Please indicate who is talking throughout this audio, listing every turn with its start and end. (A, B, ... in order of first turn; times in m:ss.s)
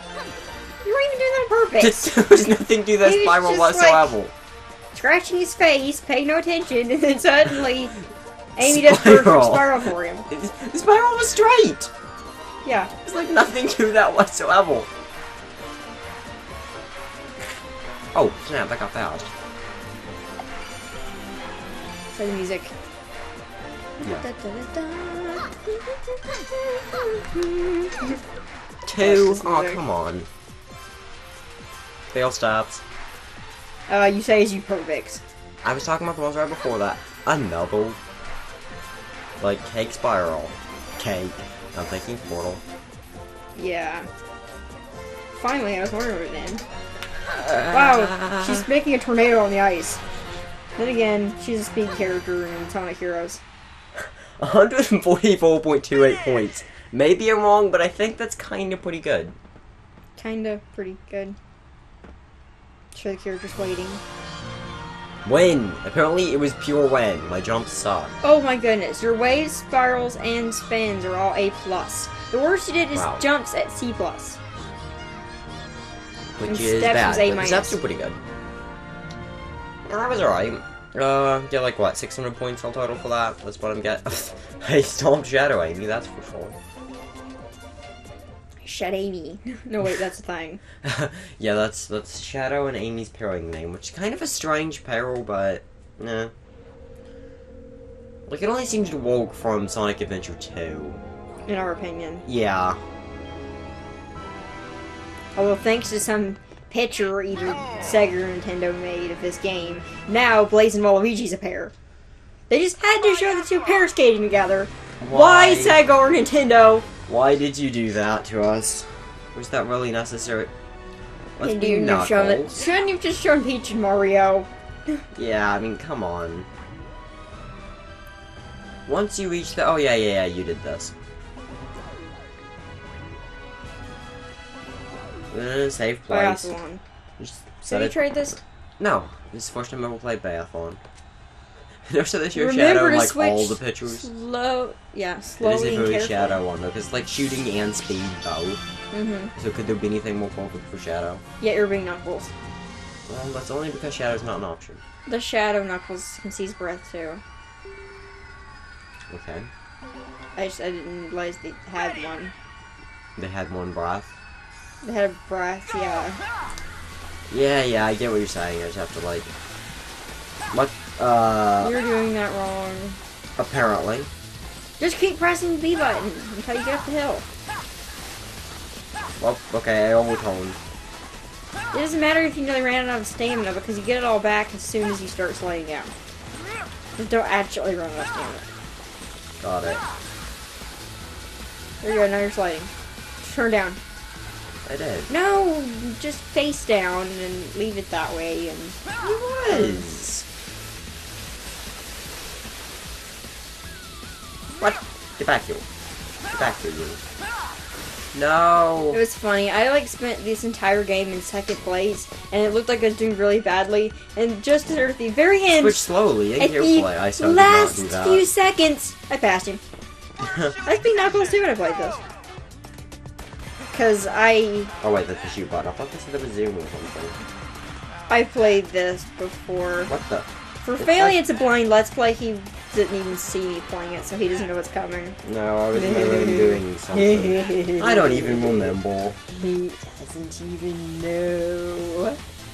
0:00.8-0:04.1 A
0:01.8-0:04.3 B
0:04.9-0:08.0 A
0:08.6-0:10.3 A
0:08.6-0:11.9 B
0:12.6-0:12.9 A
0:13.0-0:14.9 B
0:18.2-0:19.3 B
0:22.1-0:22.7 A
0:24.0-0:28.2 A
0:28.9-0:30.3 B
0:29.0-0:29.8 A
0:32.1-0:32.8 B
0:33.9-0:35.2 A
0:35.6-0:38.0 B
0:39.4-0:42.6 B
0:43.6-0:44.1 A
0:45.3-0:46.6 A
0:47.3-0:48.7 B
0:47.7-0:50.0 A
0:50.8-0:53.4 A
0:54.0-0:59.4 B
1:00.2-1:01.4 A
1:02.9-1:04.0 A
1:05.2-1:08.1 B
1:08.2-1:14.4 A
1:13.0-1:13.2 B
1:16.4-1:18.2 B
1:16.4-1:17.8 A
1:19.9-1:26.6 B
1:28.6-1:30.6 A
1:30.8-1:36.3 B
1:38.3-1:41.0 B
1:41.5-1:42.2 A
1:42.3-1:42.8 B
1:45.4-1:51.7 A
1:52.5-1:56.9 A
1:55.0-1:55.8 B
1:57.1-2:00.5 B
2:01.4-2:02.6 B
2:01.4-2:05.0 A
2:05.2-2:06.5 B
2:08.9-2:10.9 B
2:15.3-2:16.6 B
2:16.1-2:16.8 A
2:17.2-2:18.0 B
2:17.6-2:18.4 A
2:18.8-2:20.8 B
2:21.9-2:24.1 B
2:22.3-2:26.4 A
2:25.4-2:28.6 B
2:28.9-2:29.3 A
2:29.4-2:31.2 B
2:31.4-2:32.3 A
2:33.1-2:34.8 B
2:35.1-2:37.2 A
2:39.1-2:39.5 B
2:40.4-2:42.3 A
2:43.2-2:44.1 B
2:44.8-2:46.2 A
2:47.3-2:49.3 B
2:50.5-2:51.8 B
2:51.6-2:53.0 A
2:53.4-2:54.1 B
2:54.8-2:57.2 A
2:59.2-3:00.6 B
3:01.7-3:05.9 A
3:07.0-3:08.5 A
3:09.4-3:09.8 B
3:11.8-3:12.7 A
3:13.2-3:13.8 A
3:14.6-3:15.1 B
3:15.1-3:20.0 A
3:19.1-3:20.2 B
3:24.6-3:25.6 B
3:26.3-3:27.0 B
3:28.1-3:29.0 B
3:28.9-3:35.9 A
3:35.6-3:38.3 B
3:36.4-3:39.6 A
3:40.2-3:40.6 B
3:40.6-3:42.0 A
3:43.7-3:44.7 A
3:44.8-3:47.2 B
3:48.1-3:49.9 A
3:49.9-3:51.2 B
3:50.6-3:55.2 A
3:55.2-3:59.2 B
3:55.7-3:58.7 A
3:59.3-4:02.2 A